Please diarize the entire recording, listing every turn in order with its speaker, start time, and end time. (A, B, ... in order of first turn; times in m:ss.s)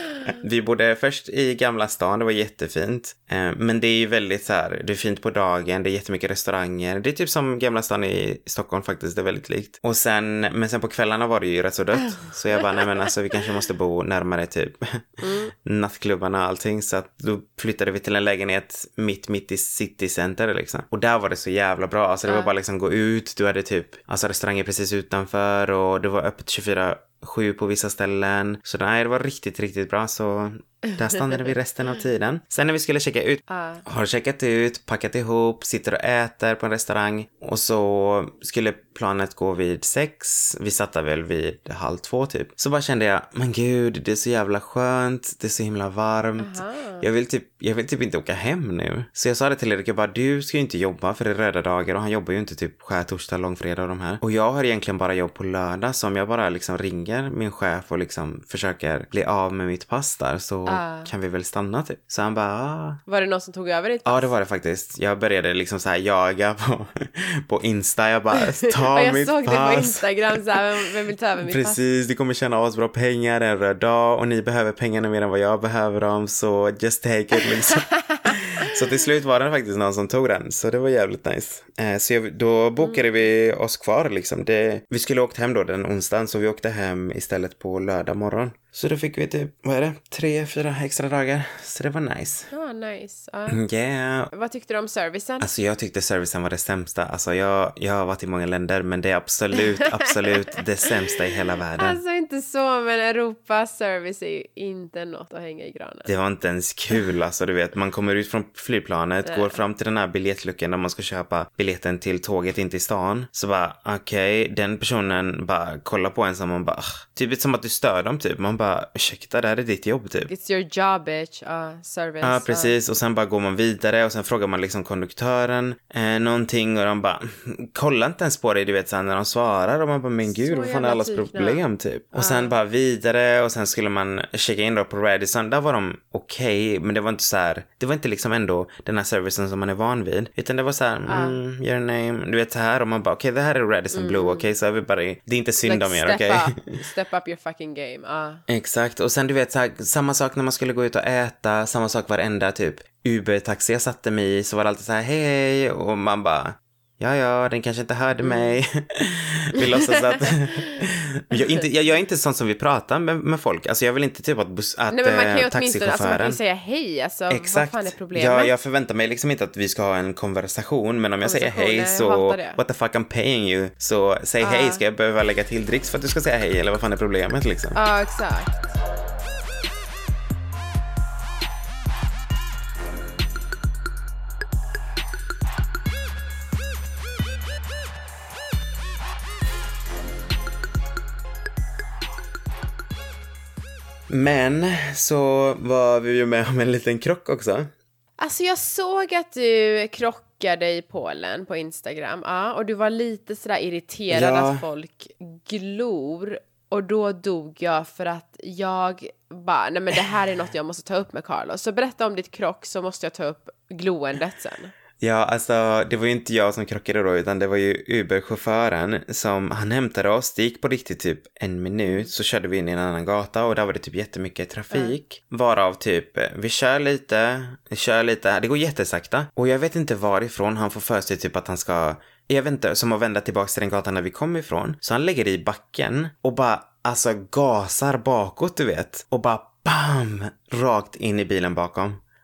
0:00.2-1:03.0 A
0:12.2-0:12.6 B
0:15.2-0:15.5 B
0:31.2-0:31.5 B
0:33.5-0:33.8 B
0:46.4-0:47.0 B
1:00.7-1:01.1 B
1:03.1-1:04.3 B
1:04.0-1:10.6 A
1:08.8-1:11.8 B
1:11.4-1:32.5 A
1:22.8-1:23.3 B
1:32.5-1:33.6 B
1:33.5-1:34.3 A
1:34.3-1:35.5 B
1:35.4-1:42.0 A
1:41.8-1:46.1 B
1:46.0-2:00.3 A
1:49.2-1:49.6 B
2:00.3-2:02.7 B
2:02.2-2:26.7 A
2:10.2-2:11.6 B
2:12.1-2:12.5 B
2:21.1-2:21.4 B
2:23.9-2:24.5 B
2:25.6-2:28.4 B
2:28.5-2:46.4 A
2:38.2-2:38.6 B
2:39.6-2:40.8 B
2:44.9-2:48.5 B
2:47.3-2:57.8 A
2:51.2-2:52.6 B
2:54.4-2:54.8 B
2:57.7-2:58.5 B
3:14.1-3:17.7 A
3:18.2-3:34.7 B
3:24.1-3:24.6 A
3:35.0-4:02.0 A
3:41.8-3:42.1 B